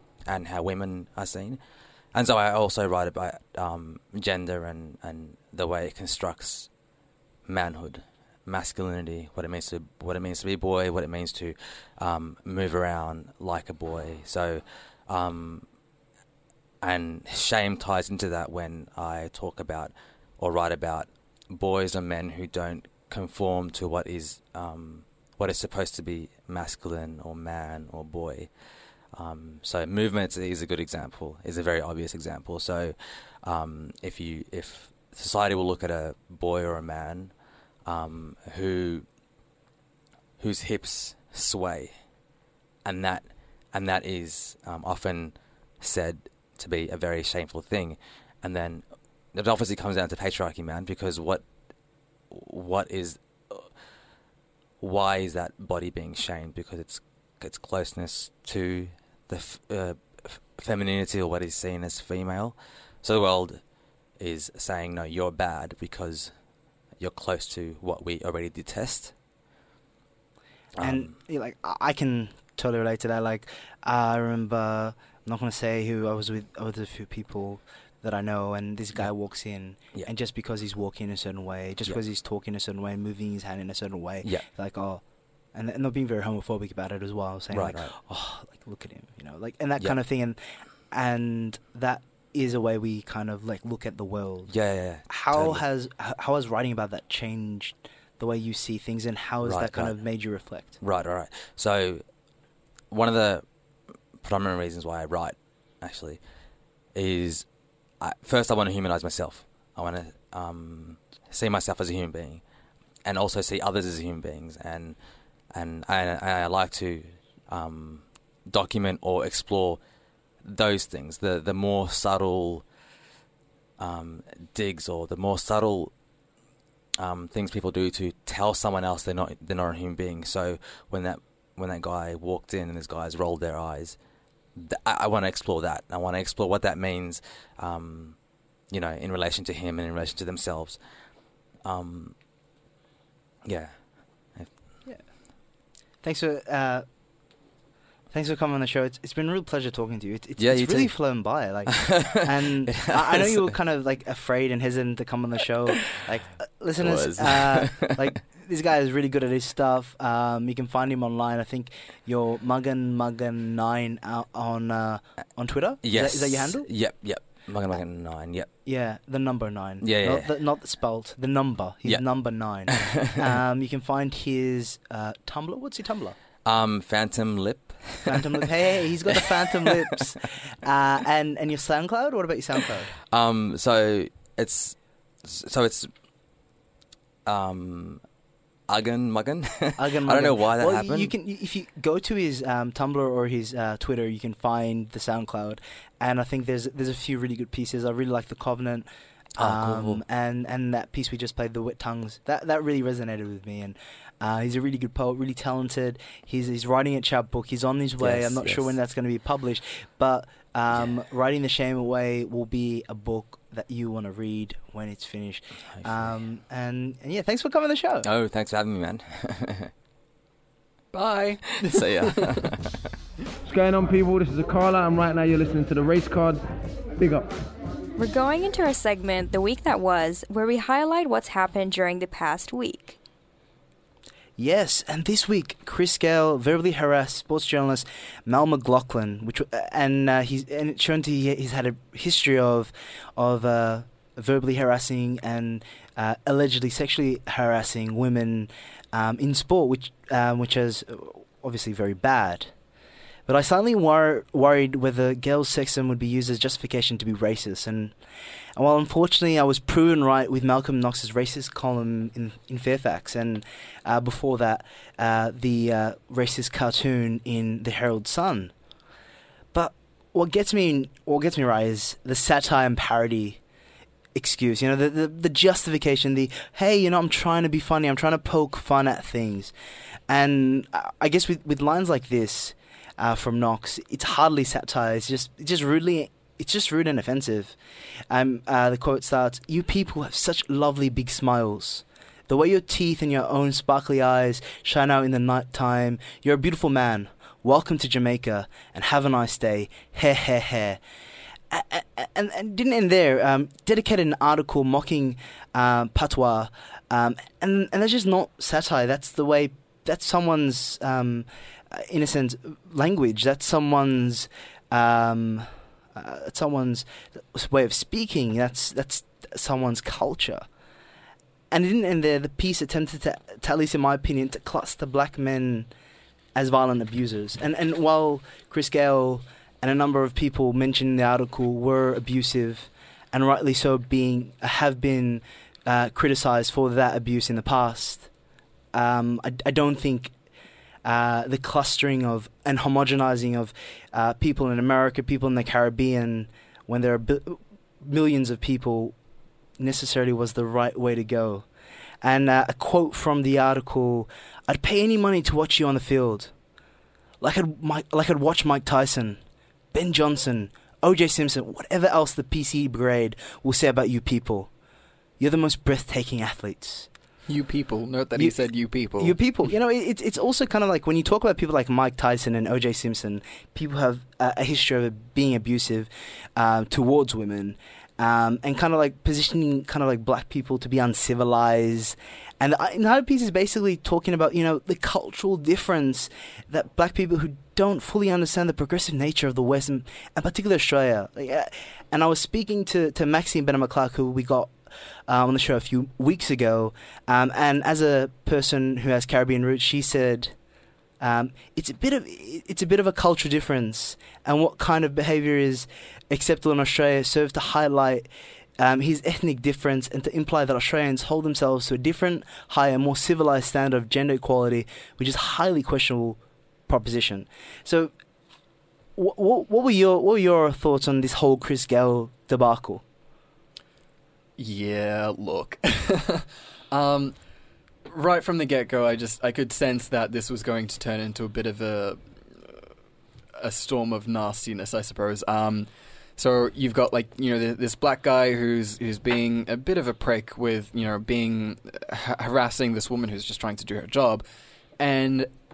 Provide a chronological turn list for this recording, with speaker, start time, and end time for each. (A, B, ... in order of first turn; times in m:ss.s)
0:00.3-0:01.6 A
0:02.1-0:06.7 A
0:07.5-0:15.6 A
0:16.8-0:28.5 A
0:29.1-0:37.3 A
0:37.8-0:39.1 A
0:40.4-0:41.9 A
0:42.8-0:51.4 A
0:52.3-0:53.7 A
0:54.8-1:03.6 A
1:04.2-1:06.3 A
1:07.0-1:09.1 A
1:10.8-1:11.1 A
1:10.8-1:25.0 B
1:25.5-1:30.4 B
1:27.5-1:28.0 A
1:30.9-1:34.5 B
1:34.5-1:35.6 A
1:35.1-1:40.8 B
1:39.4-1:40.0 A
1:40.8-1:42.0 A
1:42.9-1:43.4 A
1:44.2-1:46.2 A
1:46.9-1:47.5 A
1:48.0-1:52.4 A
1:53.0-1:55.0 A
1:55.5-1:59.8 A
2:00.4-2:02.6 A
2:03.8-2:05.9 A
2:07.0-2:14.0 A
2:14.6-2:18.2 A
2:18.7-2:20.8 A
2:21.6-2:22.1 A
2:23.4-2:23.8 A
2:26.0-2:26.8 B
2:28.1-2:46.6 B
2:30.4-2:30.9 A
2:31.7-2:33.5 A
2:36.8-2:38.1 A
2:45.8-2:48.5 A
2:48.6-2:56.2 B
2:49.8-2:50.3 A
2:52.7-2:53.1 A
2:56.4-2:58.4 A
2:58.0-3:02.9 B
2:59.2-2:59.7 A
3:03.1-3:05.9 A
3:07.3-3:08.0 A
3:08.7-3:11.1 A
3:09.8-3:38.1 B
3:19.4-3:20.0 A
3:28.0-3:28.7 A
3:35.8-3:36.1 A
3:38.0-3:39.7 A
3:40.9-3:42.4 C
3:41.6-3:42.8 A
3:43.5-3:46.4 D
3:47.0-3:47.4 D
3:48.0-3:53.0 E
3:54.4-4:12.5 B
4:13.3-4:17.9 B
4:18.6-4:28.5 B
4:29.5-4:33.4 B
4:34.1-4:39.5 B
4:40.1-4:47.6 B
4:48.1-5:00.8 B
5:01.5-5:20.5 B
5:21.5-5:25.7 B
5:26.4-5:38.1 B
5:38.7-5:40.1 B
5:40.8-5:48.9 B
5:49.6-5:51.5 B
5:52.0-5:56.3 B
5:57.2-5:59.2 B
5:59.7-6:04.5 B
6:05.2-6:06.9 B
6:07.3-6:09.2 C
6:09.0-6:34.6 B
6:35.1-6:40.4 B
6:41.0-6:57.9 B
6:59.0-7:02.8 B
7:04.4-7:07.1 C
7:07.9-7:12.6 C
7:13.4-7:24.2 C
7:24.8-7:25.3 C